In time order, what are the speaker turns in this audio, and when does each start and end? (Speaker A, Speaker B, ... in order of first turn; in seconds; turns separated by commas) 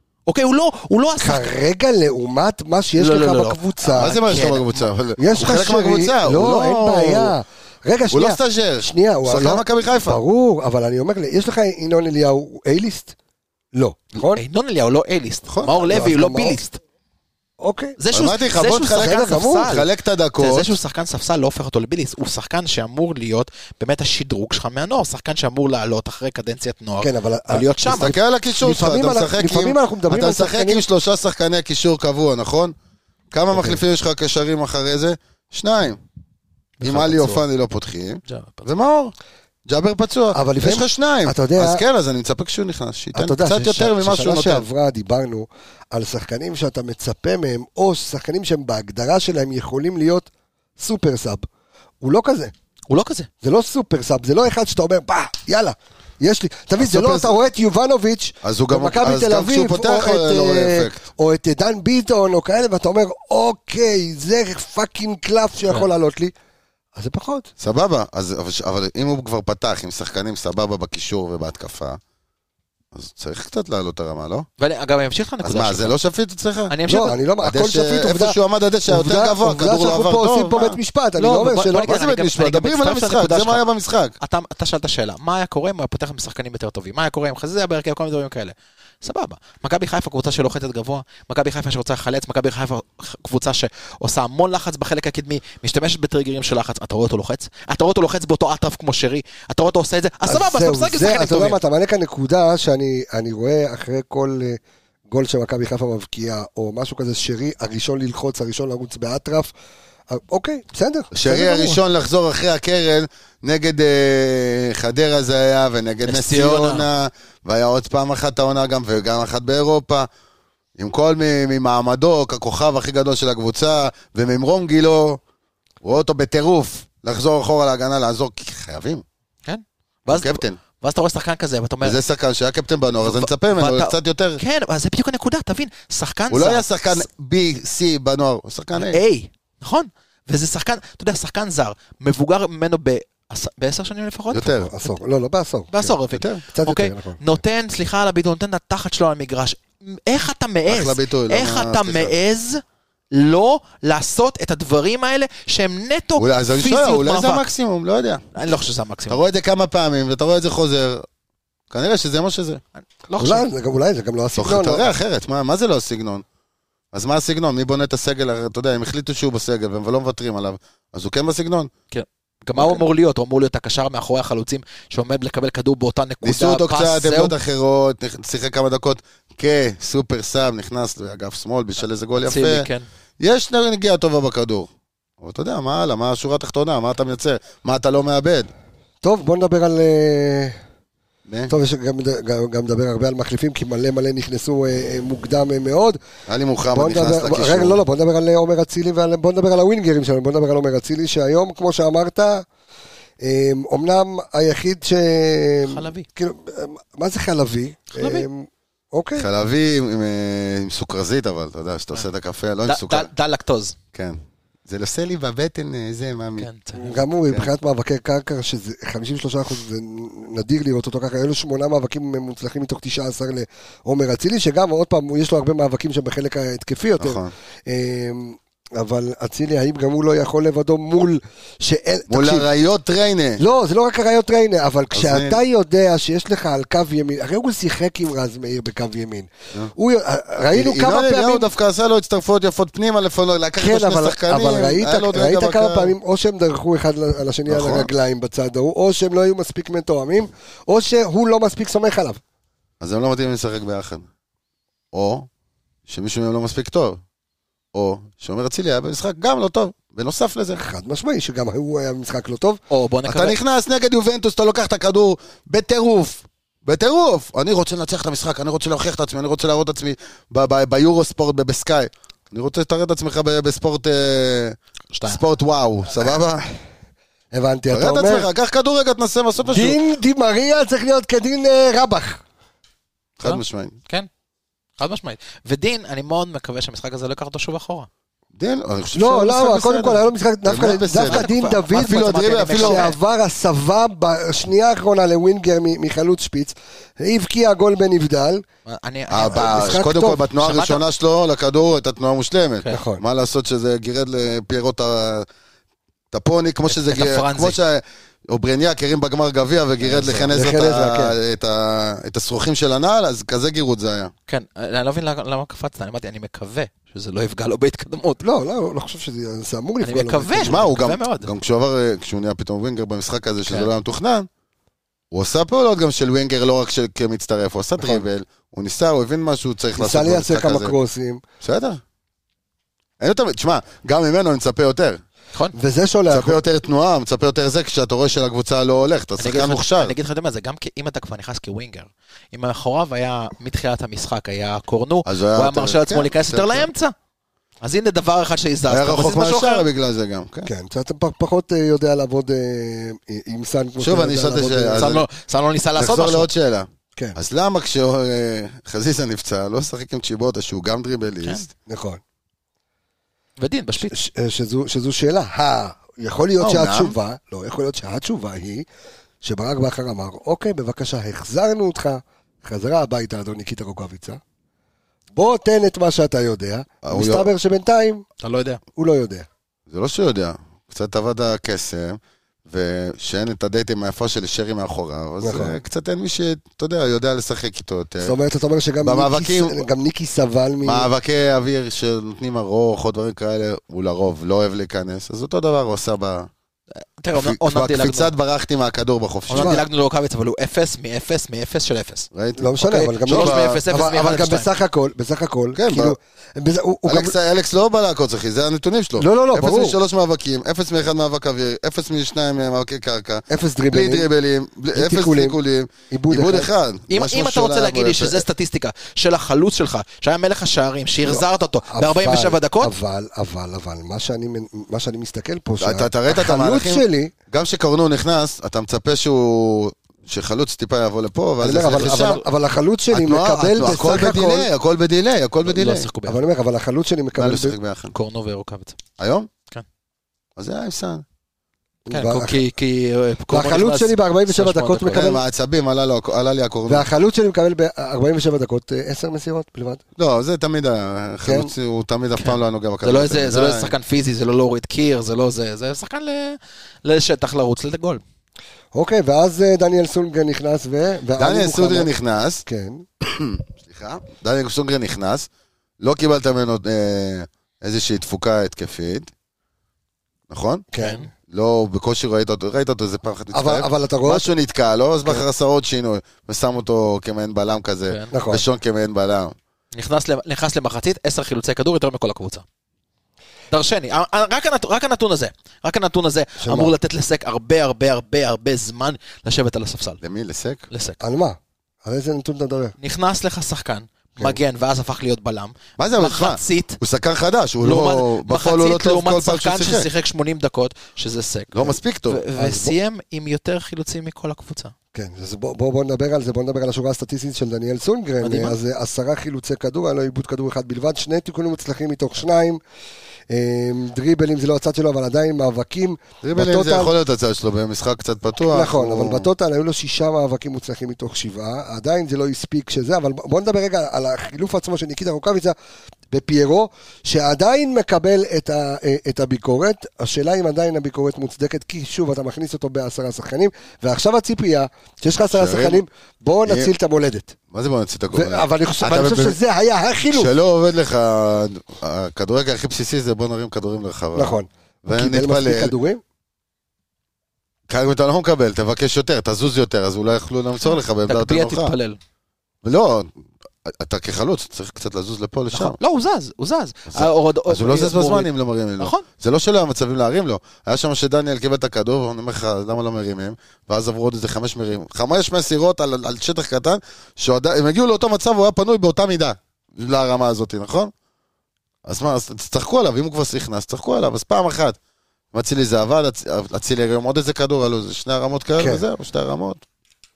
Speaker A: 0.3-1.5, Speaker B: 1.2-4.1, Speaker A: 3.0-4.9, Speaker C: 3.9-7.4, Speaker B: 5.2-13.2, Speaker C: 8.1-10.2, Speaker B: 13.7-14.4, Speaker A: 14.3-16.8, Speaker C: 15.5-15.8, Speaker B: 15.8-16.6, Speaker B: 17.6-18.0, Speaker A: 18.0-19.9, Speaker C: 18.1-20.7, Speaker B: 19.0-19.7, Speaker A: 20.4-28.2, Speaker B: 27.0-28.1, Speaker C: 27.9-32.8, Speaker B: 28.6-30.8, Speaker C: 33.3-36.0, Speaker B: 33.5-33.8, Speaker A: 36.8-37.4, Speaker C: 36.8-39.1, Speaker A: 38.3-38.7, Speaker C: 39.7-44.6, Speaker B: 40.3-41.8, Speaker B: 43.1-50.3, Speaker B: 50.8-51.5, Speaker B: 52.0-52.5, Speaker A: 52.9-53.3, Speaker B: 53.4-66.3, Speaker C: 56.8-57.4, Speaker C: 58.4-61.0, Speaker B: 67.0-67.5, Speaker C: 67.6-72.0, Speaker C: 72.9-74.5, Speaker A: 74.6-75.9, Speaker C: 75.4-76.8, Speaker A: 76.7-77.2, Speaker B: 76.9-78.4, Speaker C: 77.4-80.8, Speaker B: 78.9-81.9, Speaker A: 81.2-83.6, Speaker C: 81.8-84.1, Speaker A: 84.2-101.6, Speaker B: 100.3-104.6, Speaker B: 105.1-109.5, Speaker B: 110.1-111.8, Speaker C: 111.1-120.1, Speaker A: 116.1-116.9, Speaker C: 120.8-125.2, Speaker C: 125.8-129.0, Speaker A: 129.5-132.0, Speaker C: 130.1-130.6, Speaker C: 131.8-134.4, Speaker A: 133.0-137.1, Speaker C: 136.3-139.0, Speaker A: 138.8-144.7, Speaker C: 144.3-144.7, Speaker B: 144.7-145.9, Speaker A: 145.7-157.5, Speaker C: 146.1-146.4, Speaker B: 146.5-147.2, Speaker C: 150.7-152.1, Speaker C: 156.2-158.2, Speaker A: 158.3-159.2, Speaker C: 159.1-161.1, Speaker C: 161.7-162.6, Speaker A: 163.1-163.5, Speaker B: 163.2-164.9, Speaker C: 164.4-166.2, Speaker C: 166.9-171.7, Speaker A: 171.9-177.3, Speaker C: 176.2-182.7, Speaker A: 182.2-182.8, Speaker C: 183.2-188.5, Speaker B: 189.0-190.6, Speaker C: 191.3-191.5, Speaker B: 191.5-196.0, Speaker C: 196.3-197.8, Speaker B: 196.7-202.5, Speaker B: 203.2-209.3, Speaker A: 205.7-206.1, Speaker A: 208.0-208.3, Speaker C: 209.2-213.1, Speaker A: 212.7-213.8, Speaker C: 213.9-216.5, Speaker A: 216.4-216.9, Speaker B: 216.8-232.5, Speaker C: 227.0-227.3, Speaker C: 232.1-233.4, Speaker B: 233.4-241.5, Speaker C: 234.9-235.4, Speaker C: 240.5-245.9, Speaker B: 243.6-252.2, Speaker C: 247.5-247.9, Speaker C: 252.8-254.1, Speaker C: 254.9-255.3, Speaker C: 255.9-257.0, Speaker C: 257.7-260.6, Speaker B: 260.6-262.6, Speaker A: 262.7-263.4, Speaker C: 263.1-276.5, Speaker A: 274.9-275.2, Speaker B: 277.3-278.3, Speaker C: 277.7-279.8, Speaker B: 279.5-282.2, Speaker C: 283.2-283.8, Speaker A: 283.2-284.1, Speaker A: 284.8-287.9, Speaker C: 288.4-292.9, Speaker B: 288.9-298.4, Speaker A: 291.1-293.0, Speaker A: 298.7-299.8, Speaker C: 299.1-305.3, Speaker B: 299.3-300.2, Speaker A: 300.4-300.8, Speaker B: 302.7-303.0, Speaker C: 306.1-314.1, Speaker A: 306.7-307.6, Speaker A: 309.9-310.3, Speaker B: 310.3-311.1, Speaker A: 314.3-318.2, Speaker B: 318.2-320.6, Speaker A: 319.8-321.3, Speaker C: 320.4-324.3, Speaker C: 325.1-330.8, Speaker B: 329.8-331.2, Speaker C: 331.4-331.8, Speaker C: 333.0-335.0, Speaker B: 335.5-336.4, Speaker C: 336.1-339.9, Speaker A: 339.2-346.9, Speaker C: 345.1-346.7, Speaker A: 347.6-349.7, Speaker C: 348.7-350.5, Speaker B: 350.5-354.9, Speaker C: 353.8-355.1, Speaker A: 354.8-356.3, Speaker C: 355.8-361.5, Speaker B: 361.7-362.0, Speaker A: 363.4-363.9, Speaker B: 363.9-368.7, Speaker C: 366.4-367.0, Speaker B: 369.2-374.2, Speaker B: 375.1-378.1, Speaker C: 376.8-377.3, Speaker A: 378.2-378.6, Speaker B: 378.8-379.3, Speaker C: 379.7-388.2, Speaker B: 385.2-385.6, Speaker B: 388.0-390.9, Speaker C: 388.8-389.6, Speaker C: 390.6-396.3, Speaker A: 397.0-398.1, Speaker C: 397.1-399.6, Speaker A: 399.3-402.1, Speaker B: 399.3-399.6, Speaker C: 402.1-402.5, Speaker B: 402.4-407.1, Speaker A: 402.6-404.5, Speaker C: 403.1-403.6, Speaker C: 405.6-406.0, Speaker C: 406.9-418.2, Speaker B: 409.0-409.8, Speaker B: 413.3-414.1, Speaker B: 414.7-415.4, Speaker B: 415.9-416.5, Speaker A: 416.9-422.7, Speaker B: 421.0-427.1, Speaker C: 425.6-432.2, Speaker B: 431.4-434.5, Speaker A: 431.6-432.2, Speaker C: 432.9-435.9, Speaker A: 435.4-436.2, Speaker B: 436.1-437.6, Speaker C: 437.1-437.9, Speaker A: 437.9-438.8, Speaker C: 439.0-439.3, Speaker C: 440.4-441.1, Speaker B: 441.9-442.4, Speaker A: 441.9-445.2, Speaker B: 443.3-445.2, Speaker C: 444.9-446.9, Speaker B: 446.7-449.8, Speaker C: 450.0-453.7, Speaker B: 451.2-451.5, Speaker A: 452.2-458.0, Speaker B: 458.7-461.9, Speaker C: 461.2-462.4, Speaker B: 462.5-462.9, Speaker C: 463.0-465.3, Speaker C: 465.8-469.1, Speaker C: 470.3-470.7, Speaker B: 470.7-471.1, Speaker A: 470.8-471.1, Speaker C: 471.3-479.4, Speaker B: 473.3-474.3, Speaker B: 478.1-478.4, Speaker A: 479.8-482.4, Speaker A: 483.5-490.0, Speaker B: 486.4-486.7, Speaker C: 490.0-490.7, Speaker A: 490.7-491.0, Speaker B: 491.0-492.8, Speaker A: 492.8-496.8, Speaker C: 495.8-499.9, Speaker A: 497.6-504.7, Speaker C: 501.5-502.2, Speaker B: 502.4-502.7, Speaker B: 504.9-512.6, Speaker A: 508.2-508.6, Speaker B: 513.3-516.9, Speaker C: 516.2-519.3, Speaker B: 518.4-525.6, Speaker B: 526.1-537.4, Speaker C: 535.3-535.8, Speaker C: 536.5-536.7, Speaker C: 537.5-539.4, Speaker B: 538.1-540.3, Speaker C: 540.1-545.7, Speaker B: 544.1-546.0, Speaker C: 547.7-551.7, Speaker A: 551.1-552.0, Speaker C: 552.6-553.1, Speaker C: 553.6-555.8, Speaker A: 555.5-559.1, Speaker C: 556.9-570.9, Speaker C: 571.9-574.8, Speaker C: 575.3-579.6, Speaker B: 578.6-578.8